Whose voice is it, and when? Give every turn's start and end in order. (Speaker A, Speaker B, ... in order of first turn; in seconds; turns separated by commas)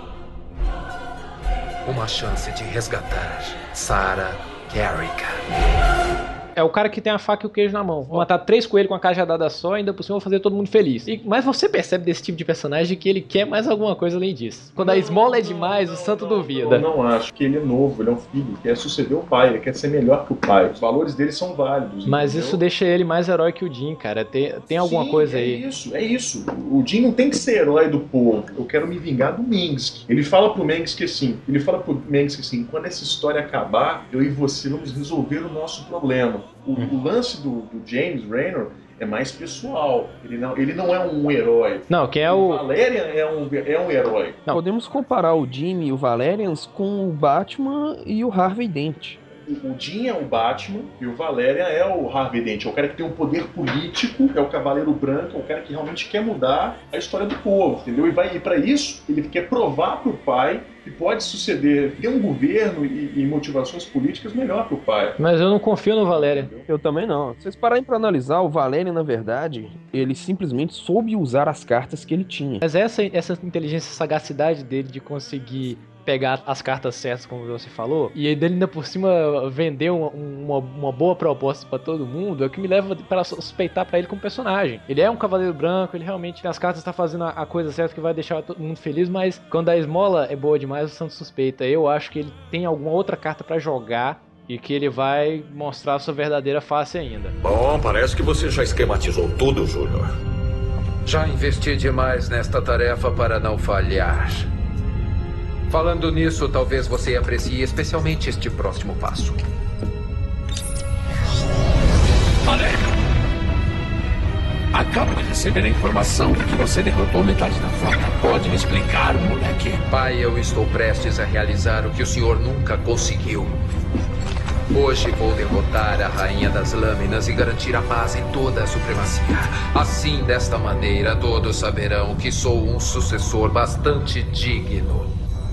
Speaker A: 1.9-5.4, Speaker B: 6.5-16.9, Speaker C: 14.8-22.6, Speaker B: 22.1-25.6, Speaker C: 24.8-44.4, Speaker B: 41.9-42.6, Speaker D: 44.5-49.2, Speaker C: 49.5-65.2, Speaker B: 65.2-66.5, Speaker C: 66.1-66.7, Speaker D: 66.6-72.6, Speaker B: 72.6-97.3, Speaker E: 97.4-100.1, Speaker A: 101.0-104.5, Speaker A: 105.7-109.4, Speaker F: 112.5-112.8, Speaker F: 114.7-119.8, Speaker A: 119.8-123.6, Speaker A: 124.7-135.1